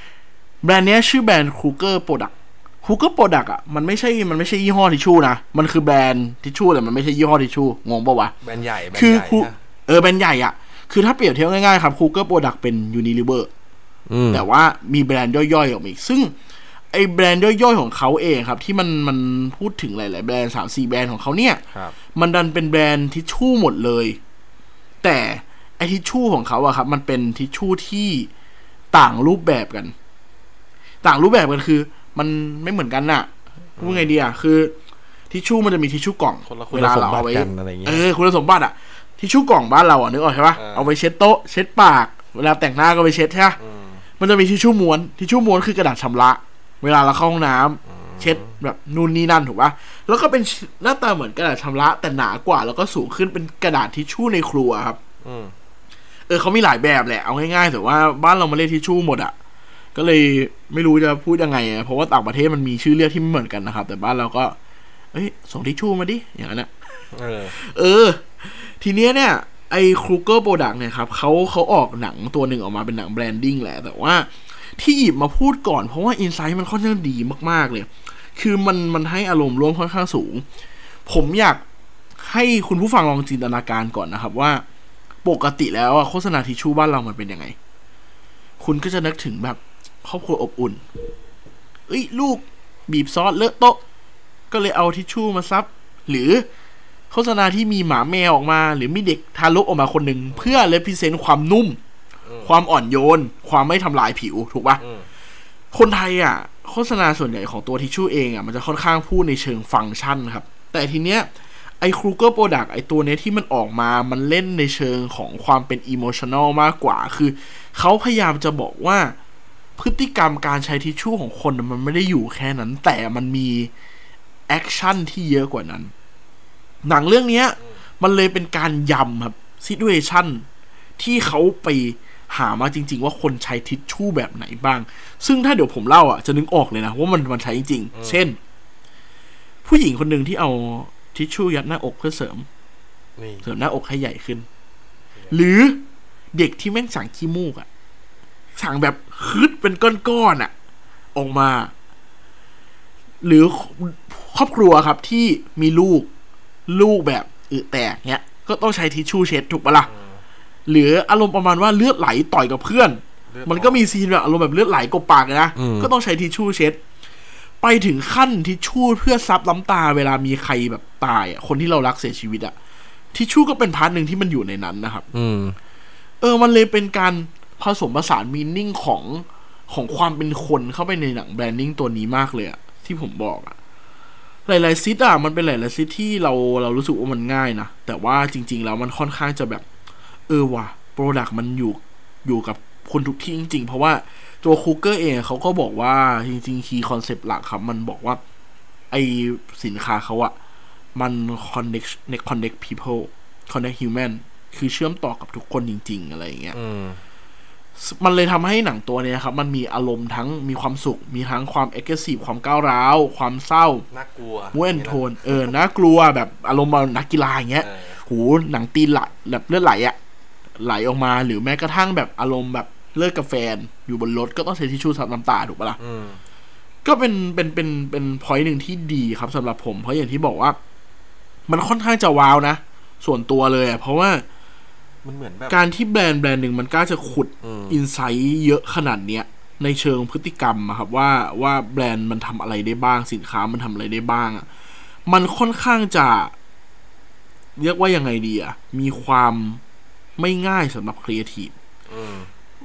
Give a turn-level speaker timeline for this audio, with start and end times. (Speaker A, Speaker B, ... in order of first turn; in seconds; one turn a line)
Speaker A: 0.6-8.3
Speaker B: 8.4-9.5
Speaker A: 8.9-13.5
Speaker B: 14.1-14.4
Speaker A: 14.3-16.3
Speaker A: 16.9-21.6
Speaker A: 22.1-24.2
Speaker A: 25.0-28.3
Speaker A: 28.9-29.9
Speaker A: 31.0-34.7
Speaker B: 33.8-34.1
Speaker A: 35.3-43.6
Speaker B: 36.5-38.0
Speaker B: 40.5-40.9
Speaker B: 43.6-44.0
Speaker A: 44.2-55.0
Speaker B: 47.9-48.5
Speaker B: 55.2-55.5
Speaker A: 56.3-59.3
Speaker A: 59.9-64.5
Speaker A: 65.1-66.7
Speaker B: 67.1-67.5
Speaker A: 67.5-80.4
Speaker A: 81.0-81.6
Speaker A: 82.2-84.6
Speaker A: 85.2-87.5
Speaker A: 88.6-90.8
Speaker A: 91.9-93.8
Speaker A: 94.5-96.5
Speaker A: 97.1-101.8
Speaker B: 100.3-100.6
Speaker B: 102.2-102.5
Speaker A: 102.4-104.8
Speaker B: 104.8-105.1
Speaker A: 105.7-111.3
Speaker A: 111.8-119.2
Speaker A: 119.8-123.7
Speaker A: 124.5-125.9
Speaker A: 126.8-130.4
Speaker A: 131.0-138.4
Speaker B: 137.9-138.3
Speaker A: 139.6-142.4
Speaker B: 143.2-143.5
Speaker A: 143.4-144.5
Speaker A: 145.3-145.8
Speaker A: 146.3-147.7
Speaker A: 148.6-150.5
Speaker A: 151.1-151.7
Speaker A: 153.2-156.1
Speaker A: 156.7-159.9
Speaker B: 159.8-160.2
Speaker A: 160.7-166.8
Speaker B: 163.3-163.8
Speaker B: 165.6-165.9
Speaker A: 167.6-172.5
Speaker A: 173.1-175.1
Speaker B: 175.1-175.6
Speaker A: 176.2-183.5
Speaker A: 184.5-189.6
Speaker A: 190.3-198.2
Speaker A: 198.9-200.3
Speaker A: 200.9-206.6
Speaker B: 206.5-207.0
Speaker A: 207.8-213.8
Speaker B: 213.9-215.5
Speaker A: 214.5-219.9
Speaker B: 217.6-218.0
Speaker A: 220.6-225.8
Speaker B: 225.8-226.2
Speaker A: 226.8-230.6
Speaker A: 231.5-234.2
Speaker B: 235.0-235.6
Speaker A: 235.5-244.5
Speaker B: 237.4-237.8
Speaker A: 245.1-246.3
Speaker A: 247.6-249.6
Speaker A: 250.2-251.5
Speaker B: 251.9-252.3